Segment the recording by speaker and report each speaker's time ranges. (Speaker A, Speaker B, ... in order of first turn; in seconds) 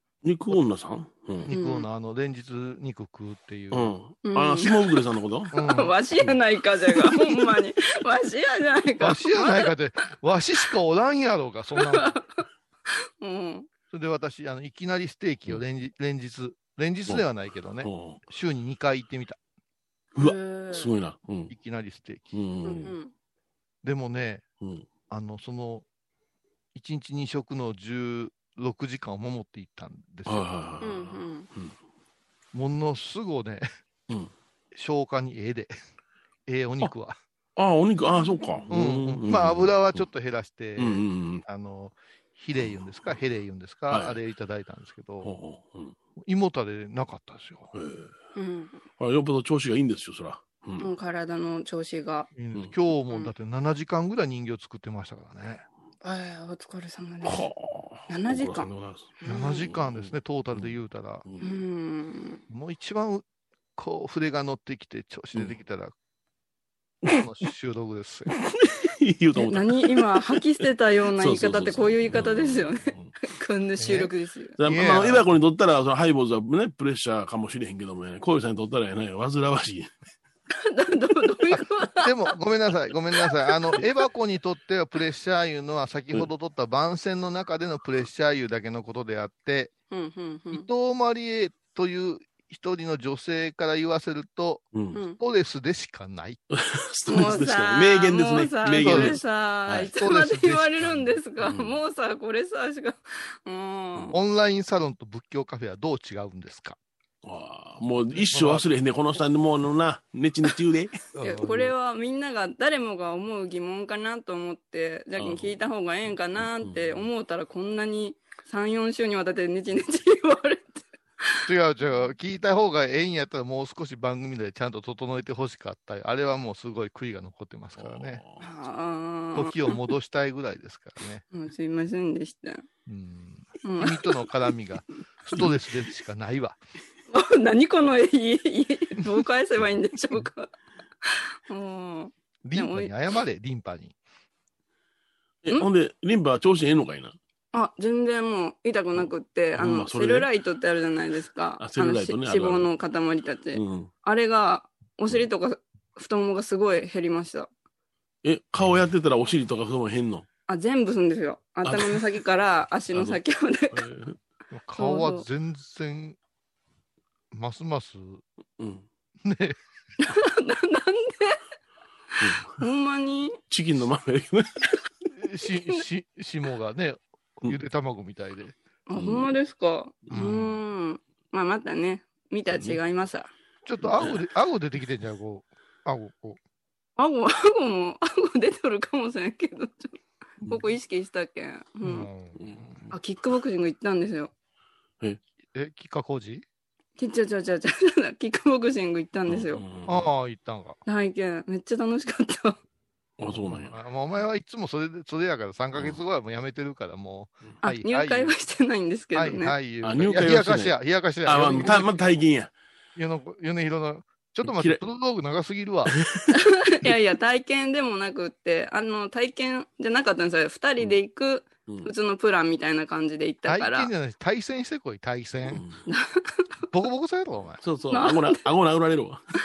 Speaker A: 0.2-1.5, 3.7-5.5, 17.8-18.2, 20.2-21.5, 22.3-23.0, 24.6-24.9, 30.3-31.8, 37.6-40.1, 40.8-41.4, 42.6-42.8, 43.9-44.2, 45.2-46.0, 47.7-48.1, 49.0-50.9, 57.2-61.6, 65.3-65.6, 68.6-70.4, 71.2-73.1, 74.6-79.9, 94.7-95.0, 96.5-99.9, 101.4-101.8, 107.2-111.0, 115.2-115.6, 116.6-117.1, 127.8-128.5, 145.4-147.2, 149.0-150.3, 151.6-152.7, 153.5-153.9, 158.2-160.3, 161.7-162.0, 162.9-163.2, 163.7-164.2, 168.6-168.9, 172.2-172.5, 173.5-174.7, 179.0-179.3, 182.5-182.8, 183.8-184.2, 192.4-192.9, 199.3-200.1, 203.2-203.8, 205.7-206.0, 209.8-212.5, 214.4-214.8, 215.9-216.8, 221.7-221.9, 225.4-225.9, 227.6-229.2
Speaker B: 1.4-3.9, 5.5-6.0, 9.0-12.1, 13.9-19.4, 21.5-22.4, 23.8-24.4, 25.1-25.9, 26.8-30.5, 32.5-33.7, 34.7-35.7, 36.5-37.2, 38.7-45.4, 46.2-47.7, 52.4-55.6, 59.3-61.2, 62.5-65.9, 67.1-68.3, 73.8-74.1, 74.6-75.3, 81.5-89.7, 90.5-96.4, 98.8-99.2, 99.7-101.2, 104.1-106.8, 108.1-108.7, 111.2-111.7, 121.5-128.2, 129.3-131.2, 132.9-136.6, 142.4-144.0, 164.5-166.2, 167.3-168.2, 169.2-169.6, 175.1-178.6, 180.1-180.6, 183.7-186.4, 191.8-192.8, 195.5-196.4, 199.9-200.8, 203.3-208.3, 209.1-211.9, 213.0-215.9, 223.5-225.7, 226.7-227.6
Speaker C: 1.5-1.9, 4.2-4.8, 5.5-9.7, 11.8-12.4, 13.2-13.7, 20.2-20.9, 22.6-23.1, 30.8-31.5, 38.1-38.7, 48.4-48.8, 50.8-52.3, 53.1-53.3, 56.0-57.5, 58.1-58.7, 59.2-59.7, 61.4-62.4, 69.3-74.6, 80.7-82.4, 83.1-83.8, 89.9-90.7, 94.9-95.2, 97.1-104.2, 111.2-122.1, 128.4-129.8, 131.3-132.7, 133.6-134.3, 137.1-140.5, 141.0-142.9, 147.5-157.5, 160.5-163.9, 164.8-165.3, 170.0-171.4, 172.2-173.4, 178.9-183.3, 187.0-192.1, 192.9-194.3, 197.0-199.6, 200.9-202.6, 207.6-209.6, 216.3-223.9, 225.9-226.6, 227.9-228.5